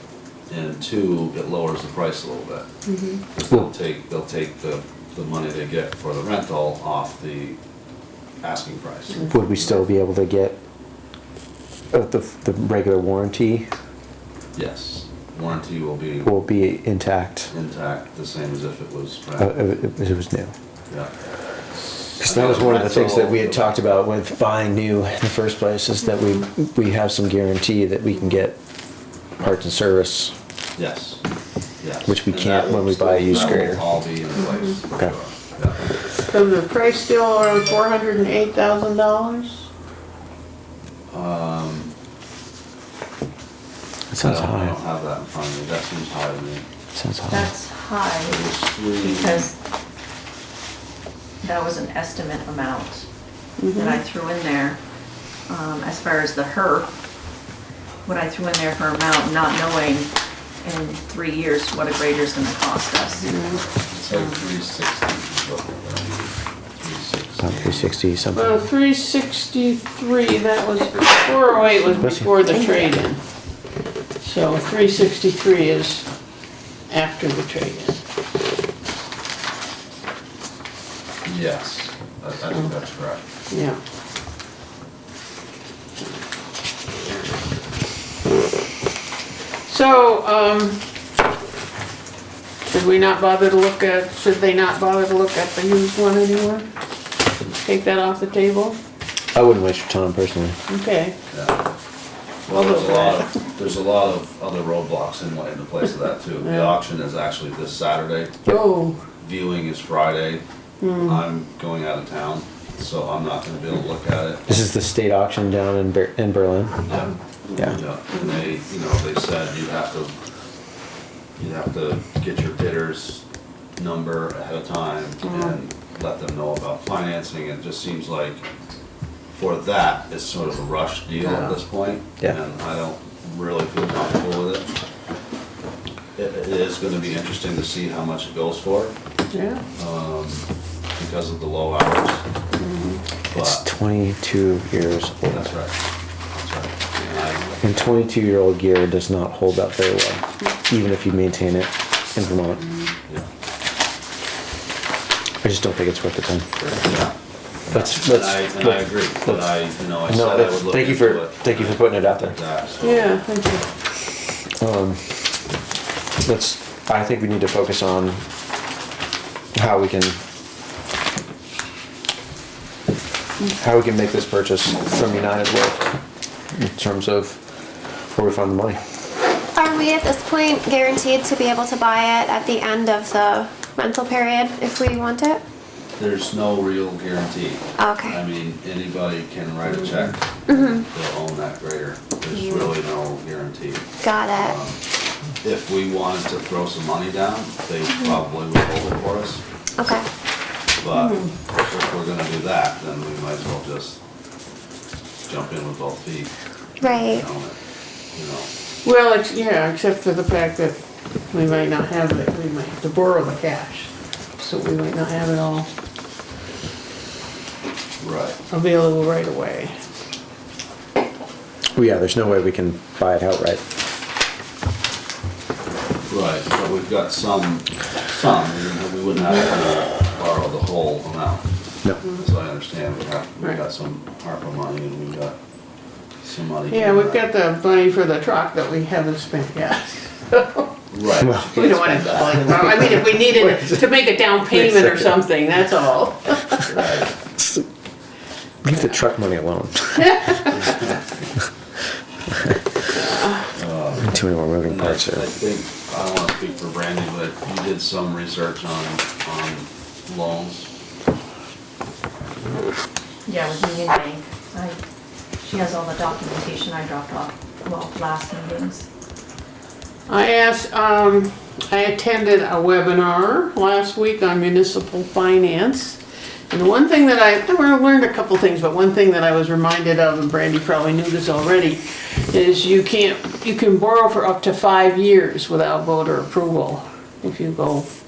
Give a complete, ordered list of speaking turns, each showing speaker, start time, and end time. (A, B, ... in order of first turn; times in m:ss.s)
0:00.5-0:02.7 A
0:02.8-0:03.2 B
0:03.3-0:07.6 A
0:08.4-0:09.4 A
0:09.3-0:10.6 C
0:11.9-0:13.7 C
0:14.5-0:16.4 A
0:16.2-0:17.5 C
0:17.5-0:19.6 A
0:19.4-0:20.5 C
0:22.2-0:28.6 C
0:22.2-0:23.8 A
0:29.4-0:30.3 C
0:30.8-0:31.2 A
0:31.8-0:35.8 A
0:32.0-0:33.8 C
0:36.3-0:39.7 B
0:41.1-0:41.9 A
0:44.1-0:44.8 C
0:44.2-0:46.6 A
0:46.9-0:47.5 C
0:47.3-0:49.5 D
0:48.2-0:49.5 A
0:51.4-0:53.0 D
0:53.6-0:54.0 B
0:53.7-0:54.8 D
0:55.5-0:56.9 D
0:58.0-1:00.1 D
1:00.6-1:03.3 D
1:03.2-1:03.6 B
1:03.8-1:08.0 A
1:07.4-1:08.6 C
1:08.3-1:13.2 B
1:12.0-1:12.4 C
1:14.2-1:16.1 B
1:16.9-1:18.0 B
1:21.2-1:23.2 A
1:23.5-1:23.8 B
1:29.7-1:30.8 B
1:32.7-1:36.7 B
1:37.6-1:38.8 B
1:39.3-1:40.6 C
1:40.7-1:41.1 B
1:41.3-1:41.6 A
1:42.5-1:48.5 A
1:42.5-1:43.2 B
1:46.4-1:46.7 B
1:48.5-1:49.0 B
1:49.2-1:50.4 A
1:50.8-1:51.2 B
1:51.0-1:54.4 A
1:54.5-1:56.8 C
1:56.8-2:00.1 A
1:57.5-1:58.2 B
2:01.4-2:03.2 A
2:03.8-2:08.4 A
2:05.2-2:05.5 B
2:09.3-2:14.7 A
2:11.2-2:11.5 B
2:16.2-2:18.9 A
2:19.3-2:19.6 B
2:19.8-2:22.2 A
2:22.6-2:23.0 B
2:23.3-2:23.6 A
2:23.4-2:25.5 C
2:25.3-2:25.8 A
2:26.3-2:28.0 A
2:27.6-2:32.6 C
2:35.4-2:36.6 C
2:36.8-2:37.1 A
2:37.6-2:43.2 A
2:37.7-2:39.5 C
2:40.0-2:42.4 C
2:42.8-2:43.7 B
2:44.6-2:45.2 C
2:46.2-2:48.2 C
2:49.5-2:50.2 C
2:53.5-2:56.0 C
2:56.5-2:57.4 C
2:58.1-2:58.8 C
2:59.5-3:05.4 E
3:06.0-3:14.8 A
3:07.8-3:08.2 E
3:10.5-3:10.8 E
3:12.3-3:12.7 E
3:14.0-3:14.5 E
3:15.4-3:19.4 A
3:19.8-3:20.0 E
3:20.8-3:24.0 A
3:20.9-3:21.2 B
3:25.3-3:27.6 A
3:26.8-3:27.2 E
3:28.1-3:28.5 A
3:28.8-3:30.8 B
3:31.3-3:35.7 B
3:38.0-3:38.4 A
3:38.5-3:39.7 B
3:41.7-3:43.6 C
3:46.1-3:51.5 A
3:52.0-3:55.4 A
3:56.2-3:57.3 A
3:56.7-4:06.8 B
4:00.9-4:02.5 A
4:01.2-4:03.8 C
4:06.6-4:07.1 A
4:08.6-4:10.3 C
4:10.5-4:11.2 A
4:13.5-4:20.7 A
4:14.0-4:15.2 C
4:23.2-4:24.8 D
4:25.4-4:28.9 D
4:30.1-4:47.9 B